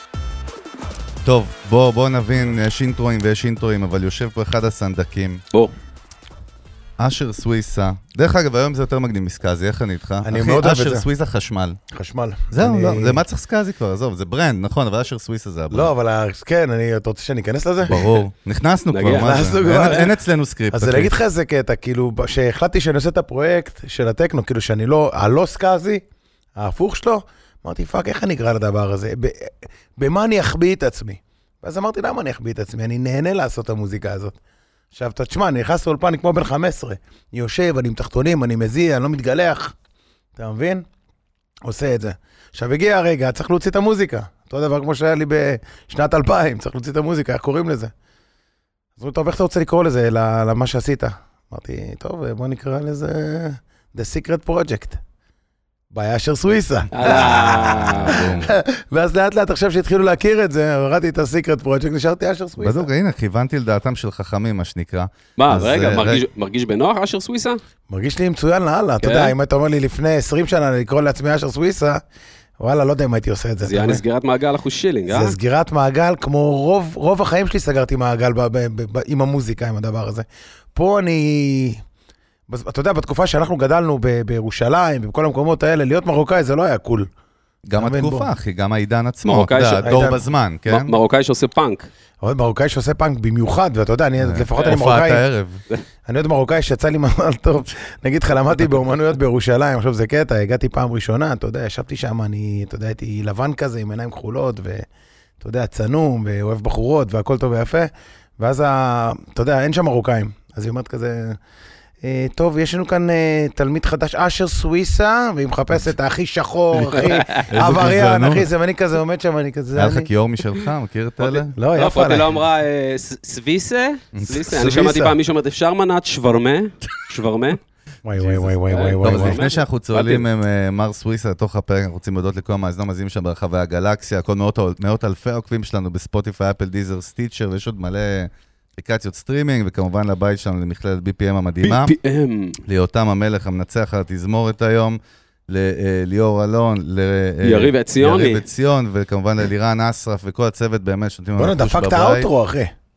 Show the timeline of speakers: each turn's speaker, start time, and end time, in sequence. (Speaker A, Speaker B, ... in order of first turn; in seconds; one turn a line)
Speaker A: 1.2-5.4
Speaker A: 7.0-11.8
Speaker B: 10.2-11.1
Speaker B: 11.9-13.2
Speaker A: 12.5-15.9
Speaker B: 15.7-18.2
Speaker A: 17.8-21.1
Speaker C: 18.9-19.4
Speaker B: 19.1-20.1
Speaker B: 20.7-26.0
Speaker B: 26.6-34.4
Speaker B: 34.9-39.7
Speaker B: 40.4-40.8
Speaker B: 41.6-47.9
Speaker B: 49.0-55.0
Speaker B: 55.9-62.9
Speaker C: 56.9-58.2
Speaker A: 57.0-58.5
Speaker A: 62.6-66.2
Speaker C: 65.4-67.6
Speaker B: 67.9-72.0
Speaker C: 69.0-69.3
Speaker B: 72.6-74.0
Speaker C: 73.6-75.3
Speaker B: 75.1-81.8
Speaker B: 82.5-87.1
Speaker A: 87.7-90.9
Speaker B: 87.8-88.3
Speaker C: 89.2-90.1
Speaker B: 89.8-90.2
Speaker C: 90.7-91.9
Speaker B: 92.2-95.2
Speaker A: 94.2-95.6
Speaker B: 96.1-104.8
Speaker B: 105.4-111.4
Speaker B: 112.0-120.1
Speaker C: 116.8-117.4
Speaker A: 117.5-118.5
Speaker A: 119.7-121.5
Speaker C: 121.2-127.6
Speaker B: 121.5-122.3
Speaker B: 124.5-125.1
Speaker B: 128.0-129.4
Speaker A: 128.2-141.9
Speaker C: 128.7-130.2
Speaker C: 141.6-142.6
Speaker A: 142.6-152.3
Speaker C: 147.4-148.4
Speaker B: 151.4-152.7